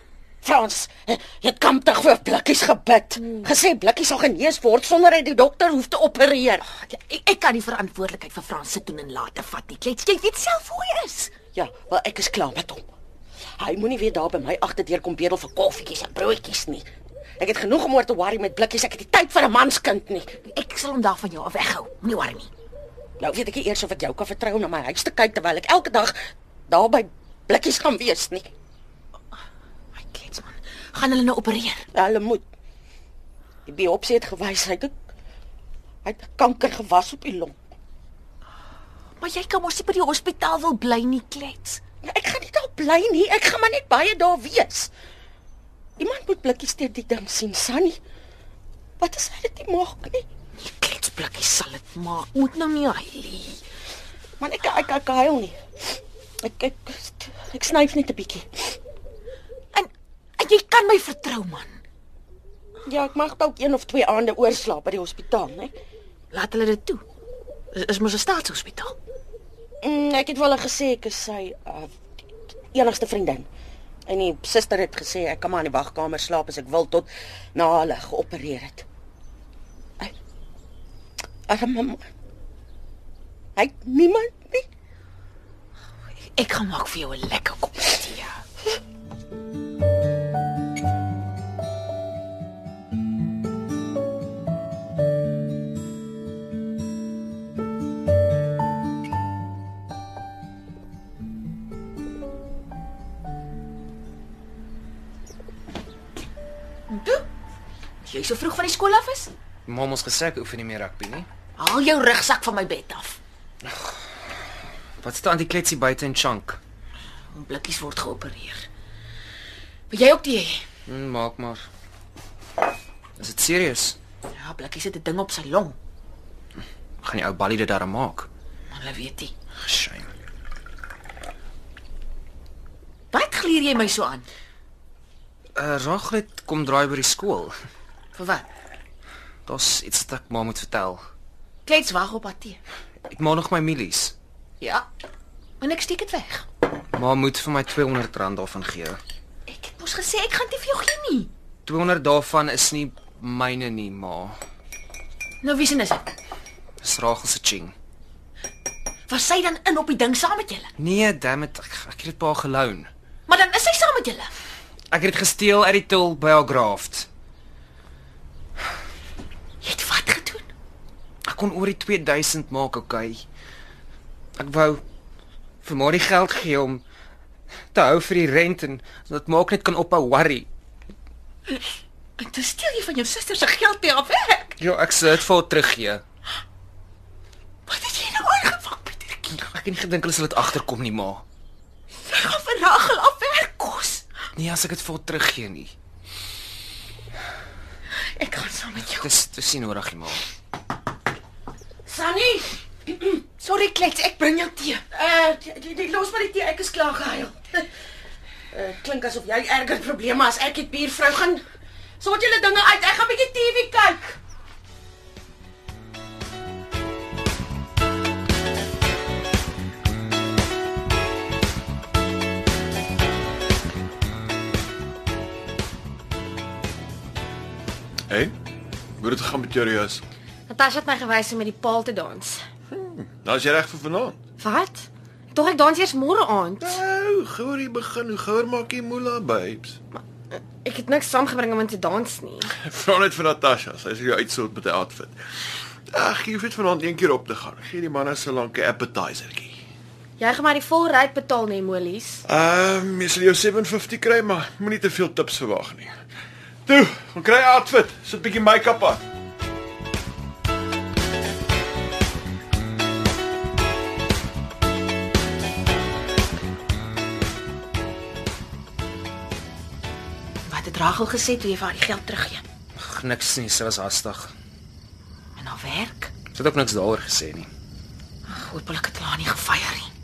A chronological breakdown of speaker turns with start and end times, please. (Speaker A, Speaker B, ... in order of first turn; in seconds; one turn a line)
Speaker A: 0.4-6.7
Speaker B: 6.7-11.4
Speaker A: 11.5-12.8
Speaker A: 13.6-16.9
Speaker A: 17.4-20.4
Speaker B: 20.5-22.5
Speaker A: 23.2-26.2
Speaker A: 26.7-28.5
Speaker B: 29.9-31.9
Speaker A: 31.9-32.5
Speaker A: 33.7-34.9
Speaker A: 36.0-37.6
Speaker B: 39.2-41.8
Speaker A: 42.0-44.9
Speaker A: 46.0-48.0
Speaker A: 49.0-50.3
Speaker B: 50.6-53.6
Speaker A: 54.4-58.8
Speaker B: 59.7-61.8
Speaker A: 62.9-65.7
Speaker B: 66.3-67.0
Speaker B: 67.7-69.0
Speaker A: 69.8-71.9
Speaker A: 72.7-73.5
Speaker A: 74.1-78.8
Speaker A: 81.5-82.1
Speaker A: 83.6-84.7
Speaker B: 86.4-88.4
Speaker B: 106.9-107.2
Speaker B: 108.0-109.3
Speaker C: 109.7-111.3
Speaker B: 111.6-113.2
Speaker C: 115.0-116.6
Speaker B: 117.3-118.7
Speaker B: 119.9-120.6
Speaker C: 120.9-121.7
Speaker C: 123.2-124.0
Speaker B: 124.3-125.8
Speaker C: 127.0-128.3
Speaker B: 128.7-129.3
Speaker C: 129.6-130.1
Speaker B: 133.1-134.3
Speaker C: 135.6-137.5
Speaker B: 138.2-138.5
Speaker C: 139.5-141.0
Speaker B: 141.7-142.6
Speaker C: 143.1-144.2
Speaker B: 144.6-144.8
Speaker B: 145.6-146.4
Speaker C: 146.9-149.0
Speaker B: 149.5-151.3
Speaker C: 151.7-154.4
Speaker B: 155.4-156.1
Speaker C: 156.8-157.8
Speaker B: 159.1-160.7
Speaker C: 160.8-162.9
Speaker B: 163.3-164.3
Speaker C: 164.9-167.1
Speaker B: 169.6-170.5
Speaker C: 171.3-173.2
Speaker C: 174.4-174.8
Speaker C: 175.6-176.8
Speaker C: 177.7-180.5
Speaker B: 182.2-184.6
Speaker C: 184.6-186.0
Speaker B: 187.7-189.3
Speaker C: 189.3-191.2
Speaker B: 192.1-194.0
Speaker C: 194.3-195.7
Speaker B: 198.2-199.1
Speaker C: 198.8-200.2
Speaker A: 201.9-203.2
Speaker B: 203.4-204.8
Speaker A: 204.9-207.7
Speaker A: 208.5-211.4
Speaker A: 212.0-214.2
Speaker D: 229.0-230.0
Speaker E: 230.5-232.4
Speaker D: 232.7-234.2
Speaker E: 234.4-236.8
Speaker D: 236.6-239.8
Speaker E: 239.9-242.5
Speaker D: 242.6-245.2
Speaker D: 245.9-249.6
Speaker E: 250.2-252.2
Speaker D: 252.3-255.9
Speaker D: 256.7-259.0
Speaker B: 270.5-272.4
Speaker C: 272.8-274.3
Speaker B: 275.4-276.1
Speaker C: 276.3-277.5
Speaker B: 278.3-279.9